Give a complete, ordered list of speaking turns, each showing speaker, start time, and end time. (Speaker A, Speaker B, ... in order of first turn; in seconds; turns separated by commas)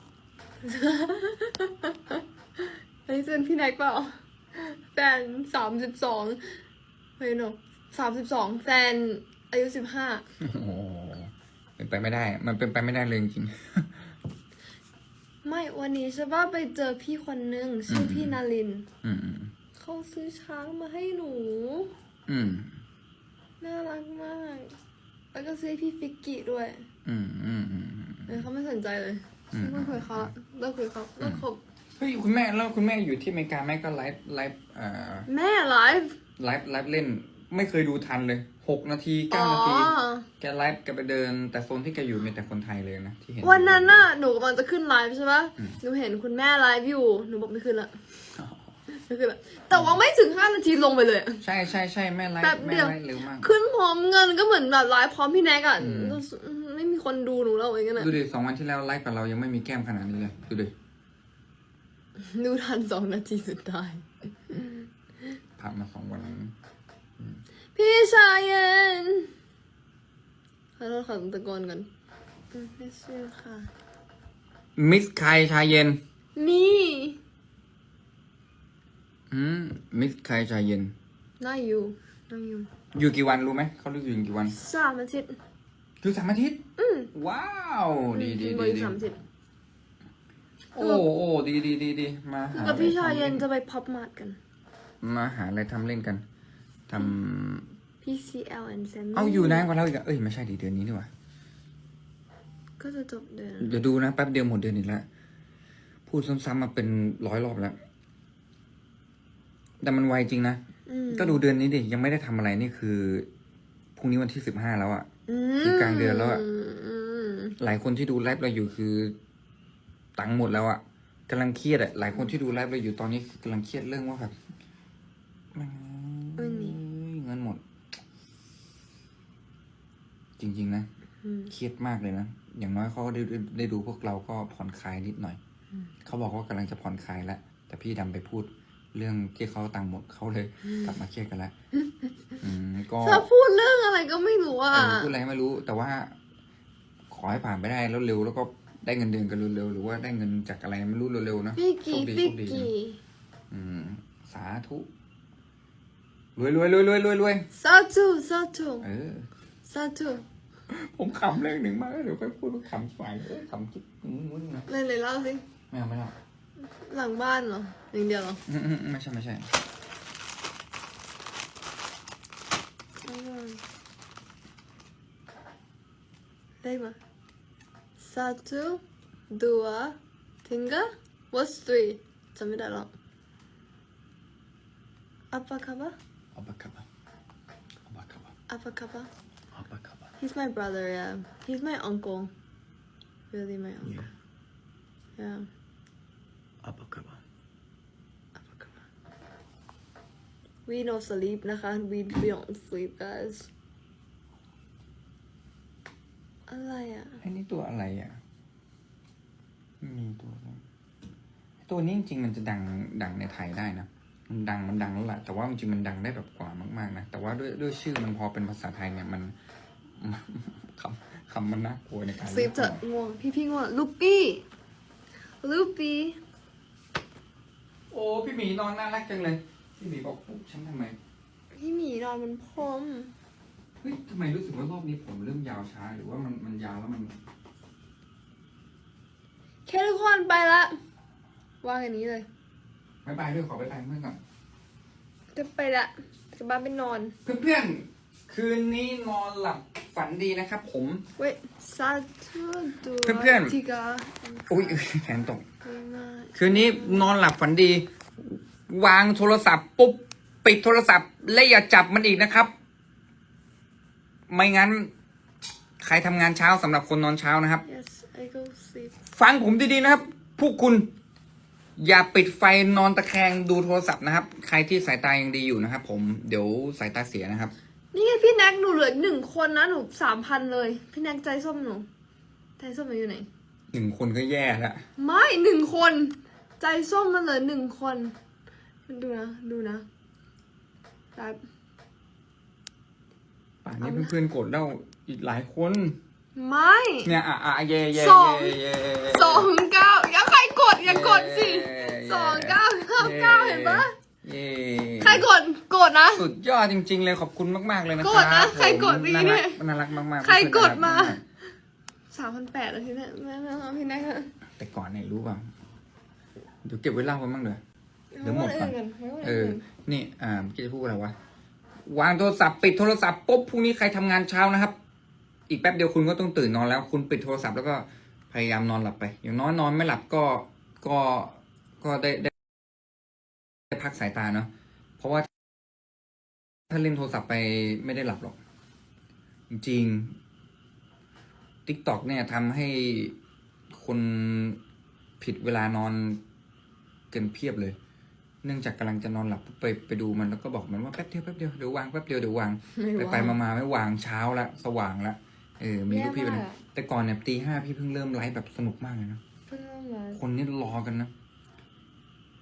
Speaker A: 0.6-6.6, Speaker A: 7.2-10.2, Speaker B: 10.4-14.1, Speaker A: 15.4-18.9, Speaker B: 17.9-18.4, Speaker B: 19.0-19.5, Speaker A: 19.8-21.9, Speaker B: 22.3-22.8, Speaker A: 23.6-24.8, Speaker A: 25.3-26.9, Speaker B: 27.1-28.5, Speaker A: 28.3-31.6, Speaker B: 29.5-30.4, Speaker B: 32.0-35.3, Speaker A: 35.3-36.2, Speaker B: 36.4-44.1, Speaker A: 39.3-40.3, Speaker A: 43.4-48.0, Speaker B: 48.4-48.7, Speaker A: 48.9-51.4, Speaker B: 49.7-50.0, Speaker B: 51.4-53.5, Speaker A: 52.4-58.1, Speaker B: 55.8-56.2, Speaker B: 58.0-60.7, Speaker A: 62.2-64.9, Speaker B: 65.6-66.5, Speaker A: 67.8-69.3, Speaker A: 70.8-71.9, Speaker A: 72.5-73.7, Speaker B: 74.8-76.0, Speaker A: 76.3-77.2, Speaker B: 79.3-81.0, Speaker A: 81.4-82.7, Speaker B: 82.9-84.6, Speaker A: 84.5-85.4, Speaker B: 86.0-86.6, Speaker A: 86.8-87.1, Speaker B: 87.1-89.0, Speaker A: 88.1-89.2, Speaker B: 90.7-93.5, Speaker A: 90.8-91.1, Speaker A: 92.5-94.4, Speaker B: 95.0-96.2, Speaker B: 96.9-97.7, Speaker A: 98.0-99.7, Speaker B: 99.1-101.1, Speaker A: 102.8-103.8, Speaker B: 103.6-105.1, Speaker B: 106.1-107.8, Speaker B: 109.8-113.3, Speaker A: 110.9-111.4, Speaker B: 114.0-115.1, Speaker A: 115.3-117.5, Speaker B: 115.6-116.4, Speaker B: 117.6-119.2, Speaker B: 120.2-124.4, Speaker B: 125.5-127.6, Speaker A: 126.4-126.8, Speaker B: 130.4-130.9, Speaker A: 131.2-131.5, Speaker B: 131.5-135.4, Speaker B: 136.0-141.5, Speaker B: 142.4-143.3, Speaker A: 143.0-145.1, Speaker B: 144.7-146.2, Speaker B: 147.1-152.7, Speaker A: 151.6-153.0, Speaker B: 153.5-154.9, Speaker B: 156.4-157.5, Speaker A: 157.5-158.9, Speaker B: 158.8-159.3, Speaker A: 159.7-160.2, Speaker B: 160.7-164.7, Speaker A: 164.7-165.4, Speaker B: 165.7-166.2, Speaker A: 166.6-168.4, Speaker B: 168.5-169.5, Speaker A: 173.0-173.6, Speaker A: 176.6-177.0, Speaker A: 178.0-182.9, Speaker A: 185.3-186.0, Speaker B: 186.3-186.9, Speaker B: 187.9-188.3, Speaker A: 188.5-189.1, Speaker B: 189.5-190.1, Speaker A: 190.2-192.3, Speaker A: 193.3-194.0, Speaker B: 193.8-194.1, Speaker A: 195.2-195.5, Speaker B: 196.6-197.2, Speaker A: 198.4-198.8, Speaker A: 200.7-203.5, Speaker A: 206.5-207.2, Speaker B: 207.2-208.2, Speaker B: 209.8-210.6, Speaker B: 211.7-219.3, Speaker B: 219.9-222.8, Speaker A: 222.2-224.4, Speaker A: 225.4-226.2, Speaker B: 227.9-231.0, Speaker A: 231.5-233.1, Speaker B: 233.8-237.2, Speaker A: 239.7-240.8, Speaker A: 241.6-242.3, Speaker B: 243.0-244.2, Speaker A: 245.3-247.2, Speaker B: 247.2-251.1, Speaker A: 251.2-254.8, Speaker B: 253.0-253.6, Speaker B: 254.5-255.4, Speaker A: 255.6-257.1, Speaker B: 256.4-262.5, Speaker B: 264.3-264.9, Speaker B: 265.8-267.6, Speaker A: 267.7-268.9, Speaker B: 269.1-270.9, Speaker B: 271.8-277.5, Speaker A: 277.9-281.9, Speaker A: 282.6-283.3, Speaker B: 283.7-284.8, Speaker A: 285.0-288.1, Speaker A: 288.9-289.9, Speaker A: 291.1-291.4, Speaker B: 293.6-296.0, Speaker A: 293.8-294.1, Speaker A: 296.4-297.1, Speaker B: 297.0-299.5, Speaker A: 297.9-303.9, Speaker B: 300.8-305.2, Speaker A: 305.0-306.2, Speaker B: 306.1-311.2, Speaker A: 308.0-309.6, Speaker A: 310.2-311.2, Speaker A: 312.1-314.3, Speaker B: 314.6-315.5, Speaker B: 316.6-317.6, Speaker A: 318.1-319.6, Speaker B: 318.2-321.1, Speaker B: 321.9-324.8, Speaker B: 325.5-332.3, Speaker B: 333.7-335.3, Speaker B: 336.7-338.4, Speaker B: 339.5-340.2, Speaker B: 341.7-343.1, Speaker B: 343.7-344.6, Speaker B: 345.2-346.2, Speaker B: 347.1-347.8, Speaker B: 348.4-359.2, Speaker A: 352.8-353.4, Speaker A: 355.9-356.6, Speaker A: 359.5-360.2, Speaker B: 360.1-361.1